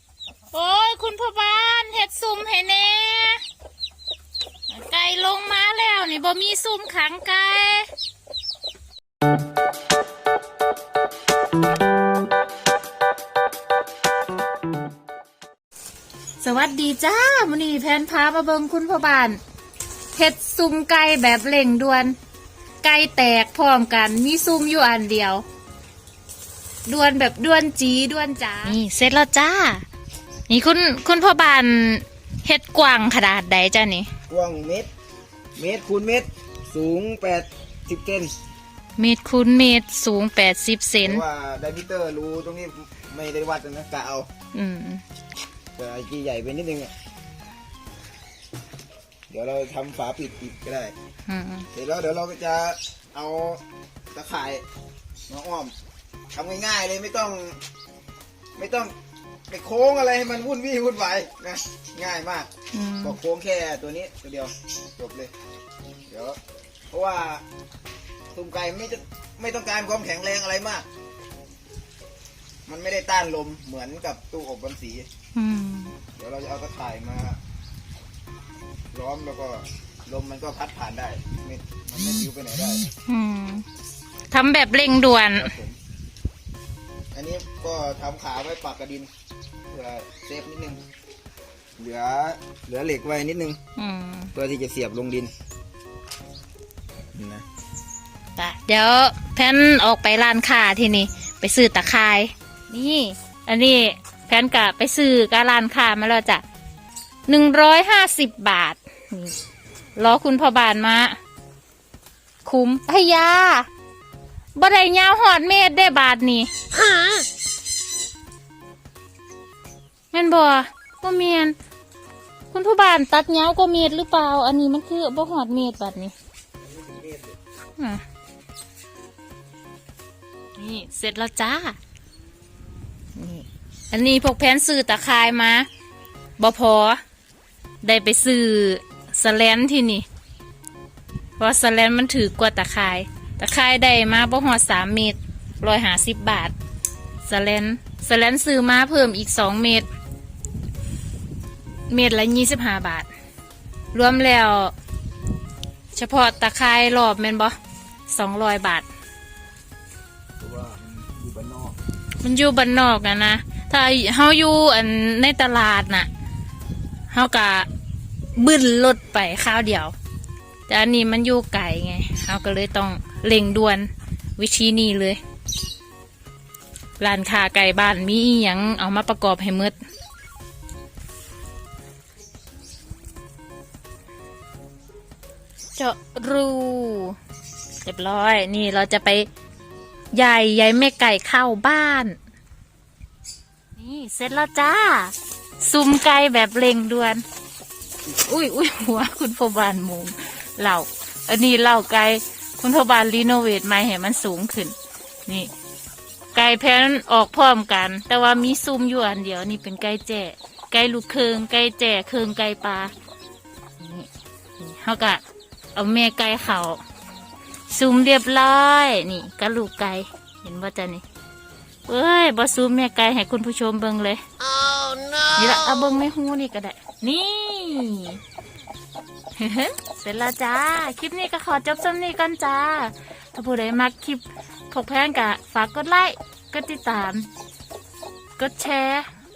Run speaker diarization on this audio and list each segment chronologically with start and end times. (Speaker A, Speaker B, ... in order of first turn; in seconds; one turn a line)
Speaker A: 0.5-3.4
Speaker A: 4.7-7.9
Speaker A: 16.4-19.4
Speaker A: 20.1-22.1
Speaker A: 22.8-25.4
Speaker A: 26.9-29.8
Speaker A: 30.5-34.1
Speaker B: 34.3-34.9
Speaker B: 35.5-38.3
Speaker A: 39.0-41.2
Speaker B: 41.0-44.3
Speaker A: 44.5-45.0
Speaker B: 45.7-46.9
Speaker B: 49.3-50.9
Speaker A: 51.3-51.7
Speaker B: 51.7-54.6
Speaker B: 55.3-55.7
Speaker B: 56.3-57.6
Speaker B: 58.5-58.9
Speaker B: 59.5-62.5
Speaker A: 62.7-63.2
Speaker B: 63.0-65.3
Speaker B: 66.1-66.4
Speaker B: 66.9-67.4
Speaker B: 68.3-70.8
Speaker B: 72.7-75.1
Speaker A: 75.3-75.9
Speaker B: 76.2-77.4
Speaker B: 78.9-82.9
Speaker A: 83.1-83.6
Speaker A: 84.3-85.5
Speaker B: 85.3-85.8
Speaker B: 87.1-89.1
Speaker B: 89.7-90.8
Speaker B: 91.8-93.6
Speaker A: 93.8-94.3
Speaker B: 94.3-95.3
Speaker B: 97.1-97.4
Speaker A: 98.4-106.4
Speaker A: 107.3-109.3
Speaker A: 110.0-111.2
Speaker A: 112.4-113.7
Speaker A: 114.5-116.5
Speaker A: 120.1-121.5
Speaker A: 122.5-126.1
Speaker B: 126.6-127.3
Speaker A: 130.6-131.8
Speaker A: 133.2-135.7
Speaker A: 136.4-137.0
Speaker A: 137.8-140.1
Speaker A: 141.4-146.5
Speaker A: 147.2-149.9
Speaker A: 151.9-153.1
Speaker A: 153.9-154.7
Speaker A: 155.9-157.6
Speaker A: 158.1-158.9
Speaker B: 160.4-161.8
Speaker A: 162.2-166.1
Speaker A: 167.1-167.7
Speaker A: 168.3-169.9
Speaker A: 170.7-175.2
Speaker A: 177.0-179.8
Speaker A: 185.8-187.2
Speaker A: 187.8-189.3
Speaker A: 190.1-192.2
Speaker A: 193.8-197.2
Speaker A: 198.1-205.5
Speaker A: 206.3-212.9
Speaker A: 213.8-215.2
Speaker A: 215.7-216.8
Speaker A: 217.7-221.0
Speaker A: 221.9-224.2
Speaker A: 225.2-228.2
Speaker A: 229.3-237.3
Speaker A: 238.4-239.1